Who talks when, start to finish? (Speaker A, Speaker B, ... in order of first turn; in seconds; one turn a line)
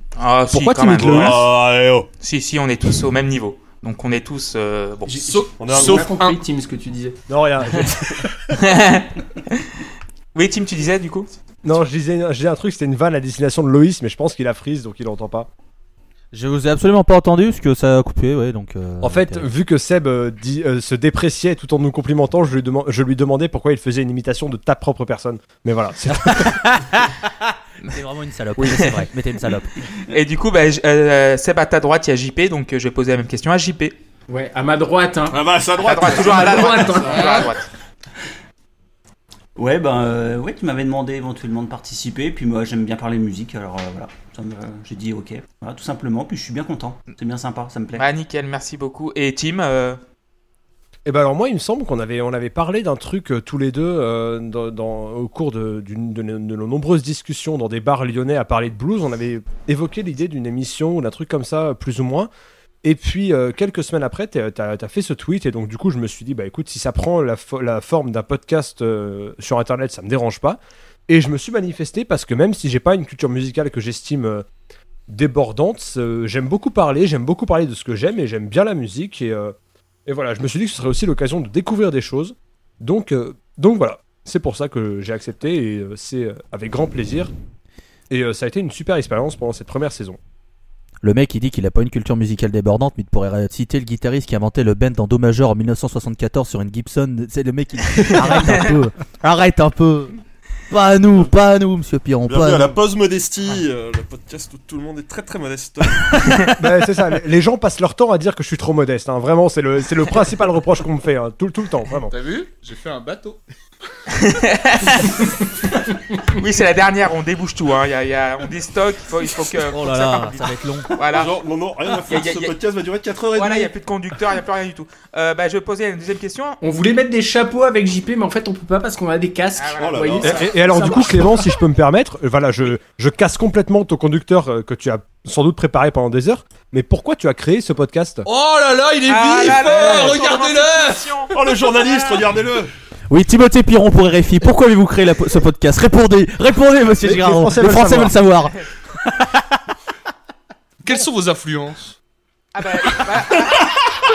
Speaker A: 0.2-1.6
Speaker B: 0.5-1.4
Speaker C: 0.9-2.1
Speaker A: 2.2-5.2
Speaker D: 5.0-7.2
Speaker E: 5.2-6.4
Speaker C: 5.6-6.1
Speaker B: 7.3-8.3
Speaker A: 8.6-9.7
Speaker A: 10.3-11.3
Speaker B: 11.6-15.5
Speaker F: 16.3-19.5
Speaker B: 19.0-26.6
Speaker F: 26.1-29.7
Speaker A: 28.7-28.9
Speaker A: 30.1-34.0
Speaker D: 34.3-35.4
Speaker C: 35.3-37.4
Speaker A: 35.8-37.7
Speaker D: 36.0-37.5
Speaker E: 37.1-37.5
Speaker G: 39.6-48.1
Speaker A: 47.9-50.0
Speaker B: 51.1-62.3
Speaker B: 62.8-74.5
Speaker B: 75.1-79.5
Speaker B: 80.1-87.3
Speaker B: 88.1-90.2
Speaker F: 91.0-100.2
Speaker A: 98.0-98.7
Speaker F: 100.7-102.7
Speaker C: 102.3-106.2
Speaker B: 106.6-112.1
Speaker E: 112.1-113.4
Speaker A: 114.1-115.3
Speaker A: 116.3-121.3
Speaker F: 119.7-120.9
Speaker C: 121.0-123.7
Speaker A: 122.1-122.6
Speaker A: 123.3-126.6
Speaker D: 126.6-131.4
Speaker A: 129.6-130.4
Speaker C: 129.8-130.5
Speaker B: 130.2-138.2
Speaker E: 138.3-141.1
Speaker A: 139.1-142.2
Speaker C: 139.5-140.2
Speaker C: 141.3-142.7
Speaker F: 143.1-149.6
Speaker B: 147.0-148.2
Speaker E: 150.8-152.0
Speaker A: 152.5-153.7